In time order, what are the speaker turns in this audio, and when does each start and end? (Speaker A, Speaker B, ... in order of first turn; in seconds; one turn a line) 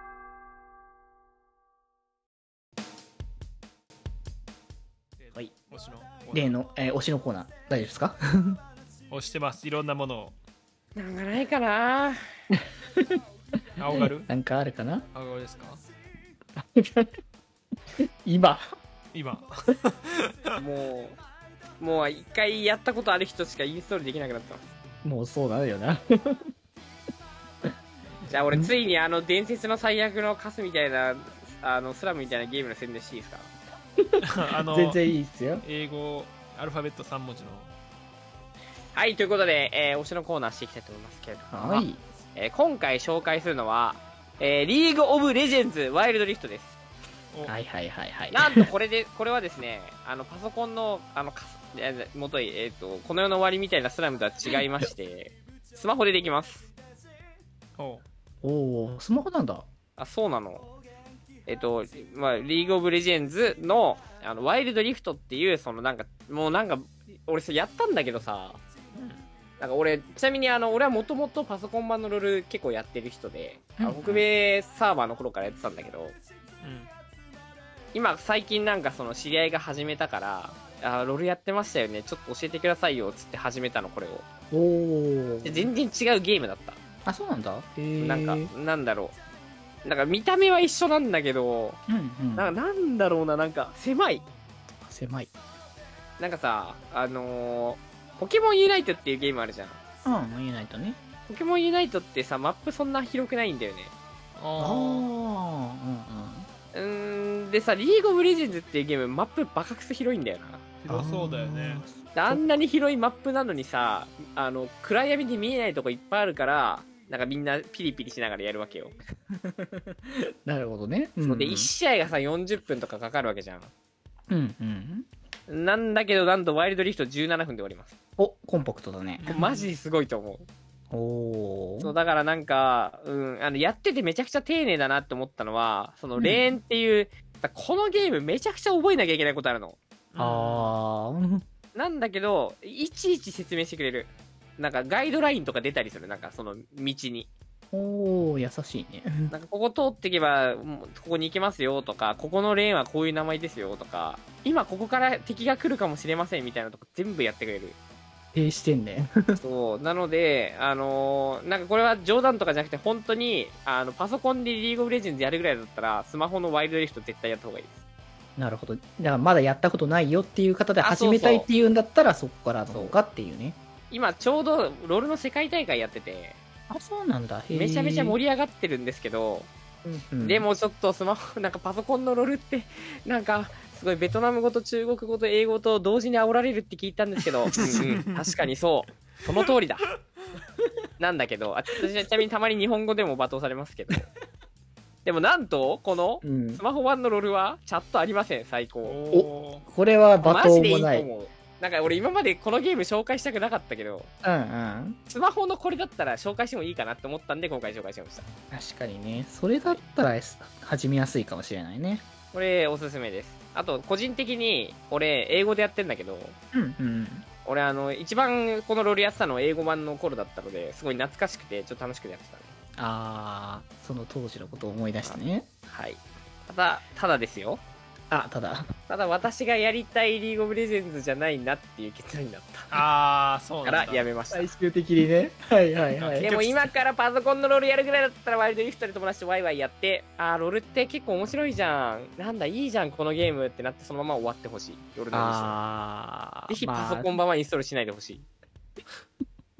Speaker A: 5.2-6.6
Speaker B: 6.3-8.6
Speaker A: 9.1-10.4
Speaker C: 10.9-12.2
Speaker A: 13.8-14.3
Speaker B: 13.8-15.1
Speaker A: 15.1-15.8
Speaker B: 16.6-17.1
Speaker B: 18.2-18.6
Speaker A: 19.1-20.0
Speaker C: 20.6-21.2
Speaker C: 21.8-24.6
Speaker B: 25.0-26.4
Speaker C: 28.3-33.5
Speaker B: 34.0-35.6
Speaker A: 34.2-35.0
Speaker A: 35.6-37.7
Speaker C: 39.0-46.8
Speaker B: 41.5-42.0
Speaker B: 47.5-48.7
Speaker C: 48.3-56.7
Speaker A: 57.8-58.0
Speaker B: 58.4-59.6
Speaker C: 60.0-60.7
Speaker C: 61.5-68.6
Speaker A: 69.0-69.2
Speaker C: 69.6-76.2
Speaker B: 73.8-74.3
Speaker A: 76.6-76.9
Speaker C: 77.9-84.3
Speaker B: 84.5-85.7
Speaker C: 85.4-86.8
Speaker B: 87.1-88.5
Speaker C: 88.0-89.2
Speaker C: 89.8-91.8
Speaker B: 91.9-92.5
Speaker C: 92.4-94.3
Speaker B: 94.8-95.3
Speaker C: 96.2-99.8
Speaker B: 100.0-101.0
Speaker C: 101.3-103.9
Speaker A: 104.4-105.0
Speaker B: 104.6-106.5
Speaker C: 106.7-110.6
Speaker A: 110.8-111.8
Speaker B: 110.9-112.5
Speaker C: 112.1-118.9
Speaker B: 119.3-121.7
Speaker C: 121.2-123.7
Speaker B: 124.3-125.1
Speaker C: 125.5-127.9
Speaker B: 128.2-129.3
Speaker A: 129.2-129.7
Speaker C: 129.3-130.5
Speaker B: 130.9-131.9
Speaker C: 131.8-139.8
Speaker B: 136.2-136.5
Speaker A: 140.1-140.7
Speaker B: 140.2-141.4
Speaker C: 141.8-147.3
Speaker B: 147.7-149.3
Speaker C: 149.3-157.8
Speaker B: 158.3-159.4
Speaker C: 159.4-167.8
Speaker B: 168.4-173.6
Speaker C: 170.8-171.5
Speaker C: 173.9-176.4
Speaker B: 176.7-178.2
Speaker C: 177.5-179.5
Speaker B: 179.8-180.5
Speaker C: 180.2-189.8
Speaker A: 187.6-188.3
Speaker C: 191.0-194.1
Speaker C: 195.1-199.0
Speaker B: 196.2-196.6
Speaker A: 198.8-199.7
Speaker B: 199.1-201.1
Speaker C: 200.2-204.1
Speaker B: 204.2-205.0
Speaker C: 205.1-208.3
Speaker B: 208.5-212.0
Speaker C: 212.3-216.4
Speaker B: 216.5-217.3
Speaker C: 217.4-222.5
Speaker B: 222.8-225.5
Speaker C: 225.0-227.6
Speaker B: 228.1-228.7
Speaker C: 228.9-232.8
Speaker A: 232.7-234.1
Speaker C: 233.6-234.5
Speaker B: 234.3-236.3
Speaker A: 235.9-236.7
Speaker C: 236.2-245.6
Speaker B: 245.1-247.2
Speaker C: 246.5-248.3